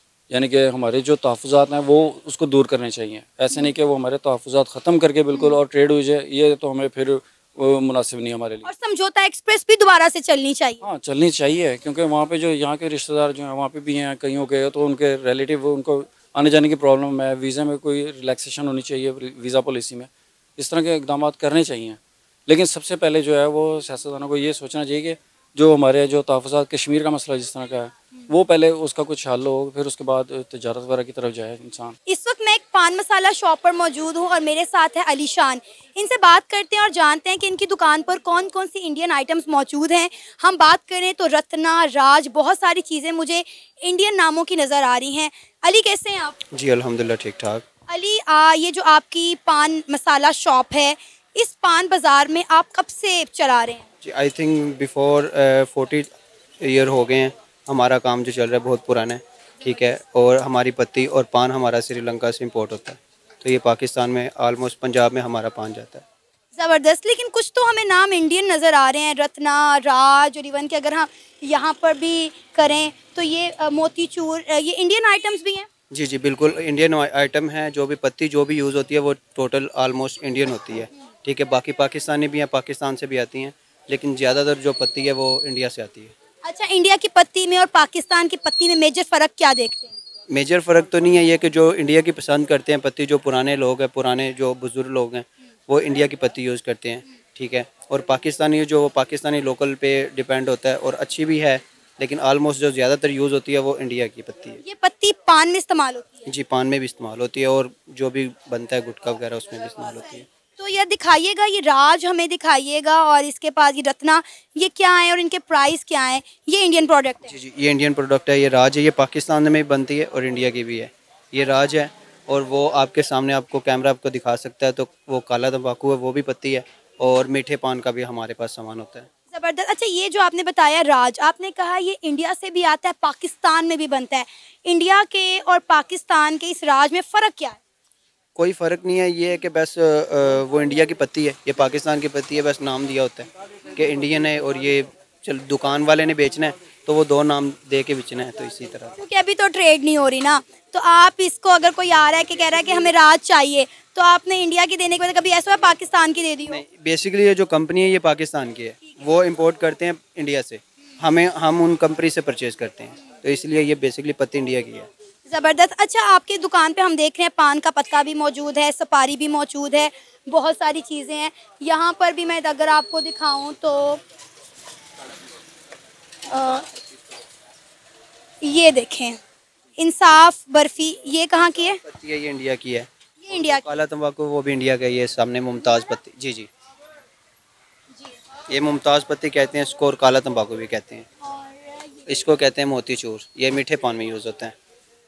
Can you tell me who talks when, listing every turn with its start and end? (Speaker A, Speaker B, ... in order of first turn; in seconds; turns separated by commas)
Speaker A: 0.3-8.7, Speaker B: 8.6-10.8, Speaker A: 10.8-32.0, Speaker B: 32.1-46.4, Speaker C: 46.5-47.6, Speaker B: 47.9-53.9, Speaker C: 54.0-56.1, Speaker C: 56.6-66.0, Speaker B: 66.5-75.7, Speaker C: 75.9-86.1, Speaker B: 86.4-89.9, Speaker C: 90.3-104.6, Speaker B: 104.6-106.3, Speaker C: 106.3-110.3, Speaker B: 110.6-117.3, Speaker C: 117.3-129.1, Speaker B: 129.3-137.6, Speaker C: 138.4-148.9, Speaker B: 149.0-156.6, Speaker C: 156.5-164.9, Speaker B: 165.3-174.0, Speaker B: 176.3-176.7, Speaker B: 178.4-179.2, Speaker B: 179.8-181.8, Speaker C: 181.8-186.5, Speaker B: 183.2-183.7, Speaker C: 188.5-191.1, Speaker B: 191.2-192.0, Speaker C: 192.1-194.6